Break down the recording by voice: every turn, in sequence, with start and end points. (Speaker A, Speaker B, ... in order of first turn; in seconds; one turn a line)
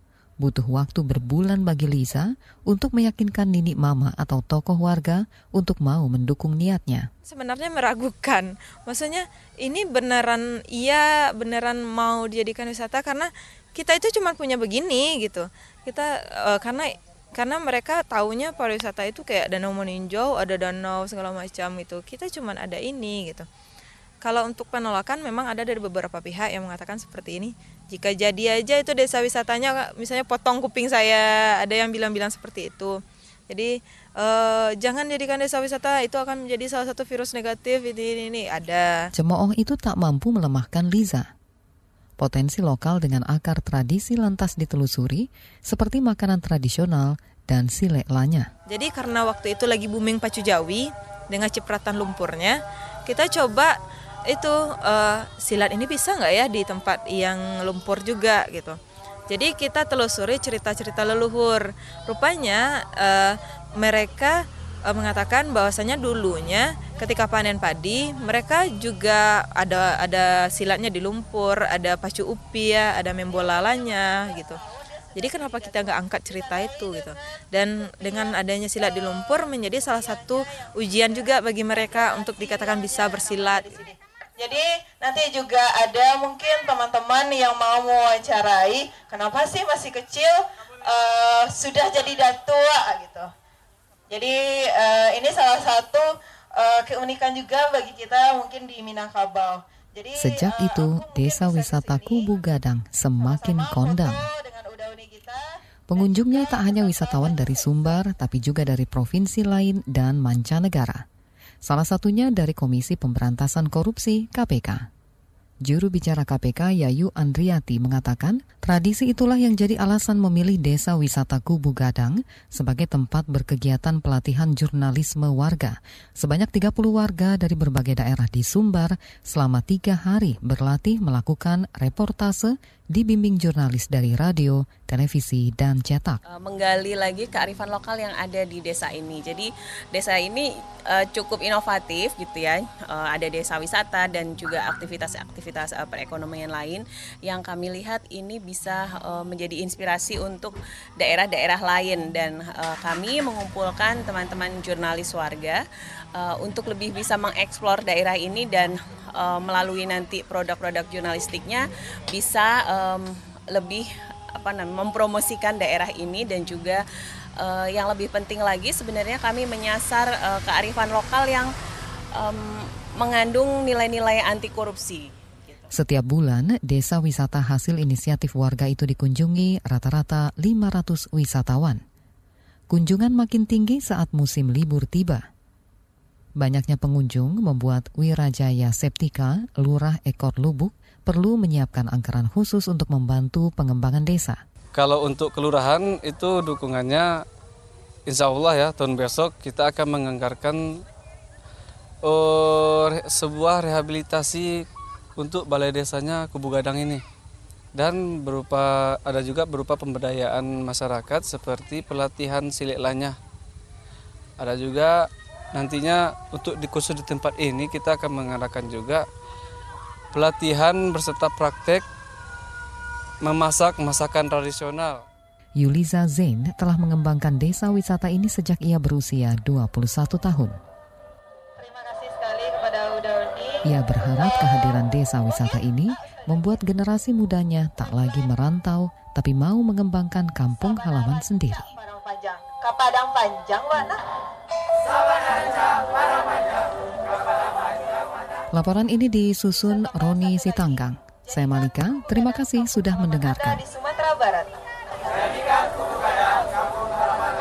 Speaker A: 0.4-7.1
Speaker B: 7.2-23.5
Speaker B: 24.2-39.0
Speaker A: 39.1-41.3
Speaker A: 42.2-48.5
Speaker B: 48.7-53.8
Speaker B: 54.3-58.8
Speaker B: 59.3-74.6
Speaker C: 75.2-77.1
Speaker B: 75.2-83.9
Speaker C: 78.0-78.3
Speaker C: 79.8-80.4
Speaker C: 81.0-93.3
Speaker C: 94.1-102.3
Speaker A: 100.2-104.3
Speaker C: 103.2-105.4
Speaker A: 105.9-111.0
Speaker C: 106.0-108.0
Speaker A: 111.6-114.9
Speaker A: 115.6-136.2
Speaker D: 136.3-155.6
Speaker D: 156.2-166.8
Speaker D: 167.4-171.5
Speaker D: 172.2-175.7
Speaker A: 175.7-181.8
Speaker A: 182.7-185.3
Speaker A: 186.4-194.4
Speaker E: 194.8-197.1
Speaker E: 198.1-200.8
Speaker E: 202.1-204.6
Speaker E: 205.2-207.0
Speaker E: 207.8-213.1
Speaker E: 214.4-219.0
Speaker E: 220.1-221.8
Speaker E: 223.2-225.0
Speaker A: 225.6-230.6
Speaker C: 231.6-233.7
Speaker A: 233.6-241.7
Speaker C: 236.0-236.6
Speaker C: 240.9-244.0
Speaker A: 248.5-253.6
Speaker C: 253.3-254.5